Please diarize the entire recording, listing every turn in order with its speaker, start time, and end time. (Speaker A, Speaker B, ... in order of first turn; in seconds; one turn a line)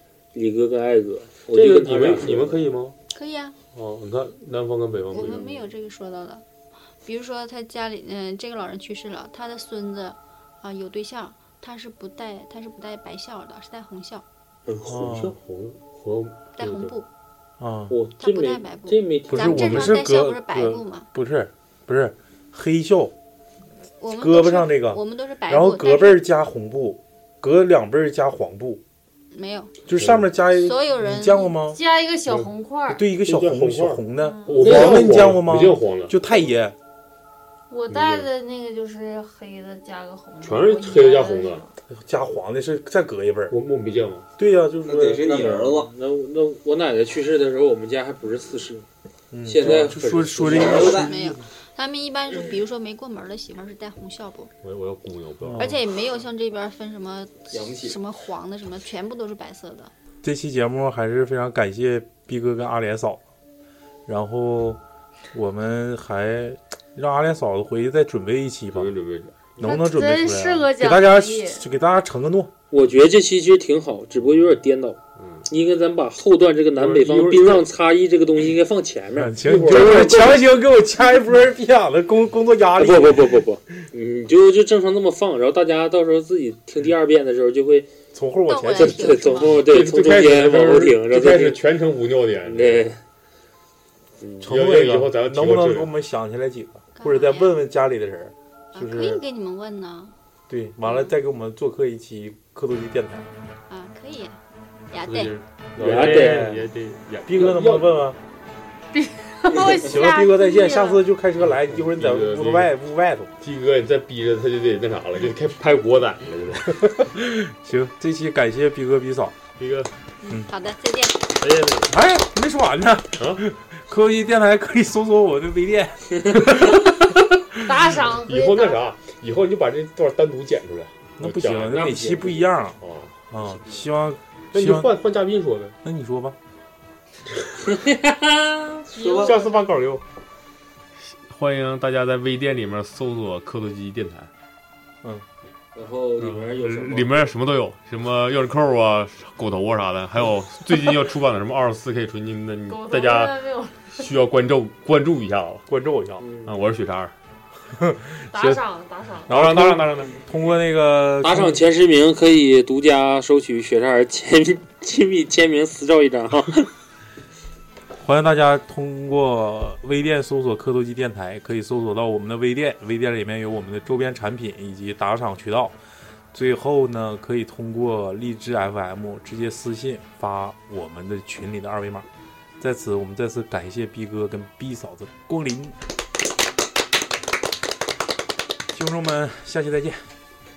Speaker A: 0.3-2.6
Speaker B: 1.5-2.9
Speaker C: 3.1-3.5
Speaker B: 3.7-5.7
Speaker C: 5.1-6.4
Speaker C: 7.0-14.2
Speaker A: 14.7-15.3
Speaker D: 14.9-15.3
Speaker B: 15.0-16.9
Speaker C: 16.6-17.1
Speaker D: 17.6-18.0
Speaker A: 17.9-20.0
Speaker C: 18.2-21.1
Speaker D: 19.3-23.1
Speaker C: 24.0-26.2
Speaker D: 24.1-28.8
Speaker C: 29.3-29.7
Speaker D: 29.9-31.8
Speaker B: 29.9-30.3
Speaker C: 30.5-31.6
Speaker E: 31.6-33.0
Speaker D: 32.9-36.8
Speaker B: 33.2-36.2
Speaker E: 34.2-34.7
Speaker A: 34.6-35.3
Speaker E: 37.7-41.7
Speaker B: 37.9-38.3
Speaker B: 40.4-41.6
Speaker D: 41.9-43.5
Speaker B: 43.5-44.3
Speaker D: 44.4-45.3
Speaker F: 44.8-45.9
Speaker A: 45.2-48.9
Speaker D: 49.3-51.4
Speaker A: 49.5-51.0
Speaker F: 50.4-51.1
Speaker C: 50.8-54.5
Speaker B: 54.6-55.8
Speaker D: 55.4-55.8
Speaker C: 55.6-59.9
Speaker F: 57.5-58.0
Speaker D: 60.2-63.2
Speaker D: 64.0-64.8
Speaker D: 65.3-68.9
Speaker B: 68.7-69.6
Speaker D: 69.6-72.5
Speaker E: 69.6-71.6
Speaker A: 72.7-80.4
Speaker B: 75.2-75.5
Speaker B: 76.8-77.7
Speaker D: 79.1-83.4
Speaker B: 79.4-80.1
Speaker A: 82.8-87.9
Speaker D: 88.1-89.4
Speaker C: 88.5-89.6
Speaker A: 88.8-91.6
Speaker B: 89.4-92.8
Speaker A: 92.4-93.0
Speaker B: 94.4-95.9
Speaker D: 94.4-99.2
Speaker C: 97.0-97.6
Speaker C: 98.7-100.1
Speaker D: 100.5-103.3
Speaker C: 100.8-101.1
Speaker C: 103.7-104.4
Speaker C: 104.9-105.4
Speaker B: 105.0-108.0
Speaker A: 105.8-106.5
Speaker D: 105.8-106.7
Speaker D: 107.2-108.2
Speaker E: 108.9-111.0
Speaker D: 109.6-113.3
Speaker C: 110.4-110.9
Speaker B: 111.4-112.7
Speaker B: 113.4-117.1
Speaker D: 117.0-119.4
Speaker B: 119.5-119.9
Speaker C: 120.2-121.2
Speaker B: 121.4-121.9
Speaker D: 121.9-127.0
Speaker B: 123.2-123.4
Speaker E: 127.6-128.8
Speaker D: 127.7-128.0
Speaker B: 128.1-131.7
Speaker D: 131.2-132.8
Speaker A: 131.4-132.4
Speaker B: 132.8-133.2
Speaker D: 133.3-134.9
Speaker B: 134.5-135.7
Speaker D: 135.8-136.4
Speaker A: 137.7-138.8
Speaker F: 138.9-139.3
Speaker D: 139.1-140.0
Speaker B: 141.0-144.3
Speaker A: 145.7-147.1
Speaker B: 146.3-153.4
Speaker E: 152.7-154.1
Speaker B: 153.9-155.7
Speaker D: 155.7-156.2
Speaker A: 156.2-156.6
Speaker B: 156.4-157.1
Speaker D: 157.7-158.6
Speaker E: 158.3-159.5
Speaker D: 159.3-161.6
Speaker B: 159.3-160.1
Speaker A: 161.2-166.7
Speaker D: 168.0-175.7
Speaker D: 176.3-182.1
Speaker D: 182.6-185.8
Speaker D: 188.7-190.1